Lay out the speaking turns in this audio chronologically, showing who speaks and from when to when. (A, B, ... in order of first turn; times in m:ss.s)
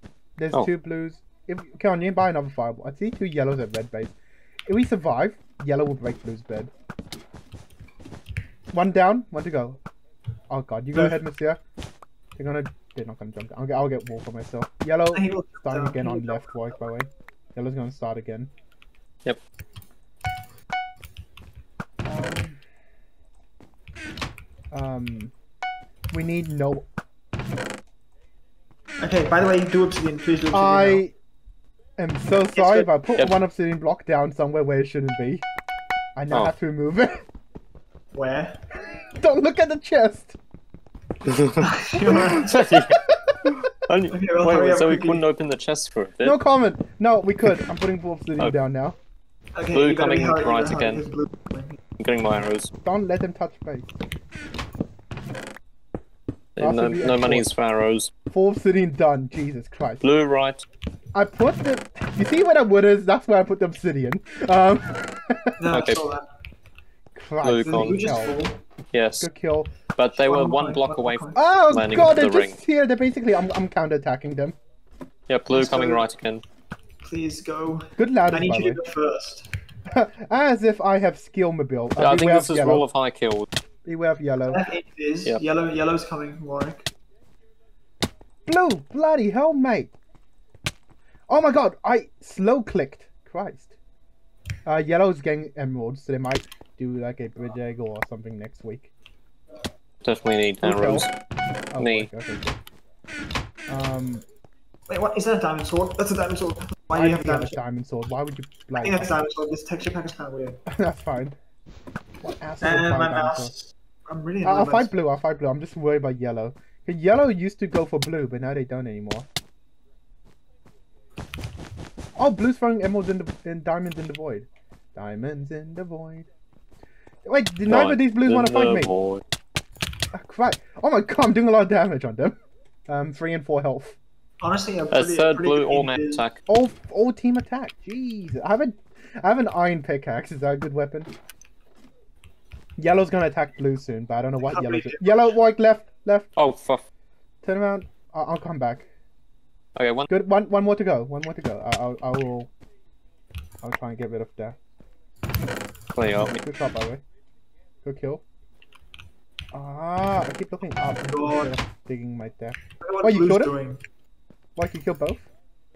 0:00.4-0:04.1 A
0:04.6-0:06.7 A
0:08.7-0:09.8 A
0:10.5-0:11.6 A
0:12.4-0:18.5 A
0:15.1-0:16.6 B
0:22.0-0:22.6 A
0:24.7-0:25.3 A
0:26.1-0:26.9 A
0:29.0-0:31.0 B
0:30.5-0:31.1 A
0:32.0-0:35.4 A
0:32.6-0:32.9 B
0:36.1-0:37.2 A
0:38.1-0:38.6 B
0:39.2-0:40.4 A
0:41.2-0:43.0 C
0:41.6-0:42.8 B
0:42.9-0:43.5 A
0:43.8-0:46.4 C
0:44.1-0:45.2 B
0:46.2-0:49.0 A
0:49.5-0:51.8 B
0:49.7-0:51.0 C
0:52.0-0:52.7 C
0:52.8-0:53.9 A
0:56.6-0:58.1 C
0:56.6-0:57.4 A
0:58.3-1:00.0 A
1:00.0-1:00.6 C
1:01.1-1:05.6 A
1:05.6-1:06.3 B
1:05.7-1:06.0 C
1:07.1-1:08.4 A
1:07.4-1:08.1 C
1:07.6-1:08.6 B
1:08.9-1:09.3 C
1:09.2-1:09.8 A
1:10.0-1:12.6 C
1:10.1-1:11.4 B
1:11.3-1:14.6 A
1:15.3-1:16.4 C
1:15.5-1:16.0 B
1:17.0-1:19.5 B
1:18.0-1:18.8 A
1:19.9-1:22.8 A
1:22.0-1:23.5 C
1:23.8-1:24.6 A
1:24.5-1:26.9 B
1:28.4-1:29.9 A
1:31.3-1:33.7 A
1:34.6-1:38.9 A
1:40.0-1:41.1 C
1:40.6-1:41.1 A
1:41.7-1:42.6 A
1:41.8-1:42.1 C
1:43.7-1:44.2 A
1:44.9-1:47.6 B
1:46.9-1:49.1 A
1:48.8-1:50.6 B
1:50.7-1:51.4 A
1:52.2-1:53.5 A
1:52.6-1:55.0 B
1:54.4-1:59.3 A
2:02.2-2:06.3 A
2:07.2-2:08.9 A
2:07.7-2:09.2 C
2:10.1-2:14.0 A
2:14.4-2:16.2 B
2:14.9-2:16.4 C
2:16.5-2:21.1 A
2:22.8-2:26.3 A
2:24.5-2:25.3 B
2:26.4-2:26.8 C
2:27.4-2:28.8 A
2:29.7-2:30.1 C
2:30.1-2:32.5 A
2:33.6-2:34.6 A
2:35.9-2:36.4 C
2:36.4-2:37.0 A
2:37.8-2:38.2 A
2:39.5-2:43.5 A
2:41.0-2:41.5 B
2:42.8-2:43.8 B
2:44.6-2:45.3 A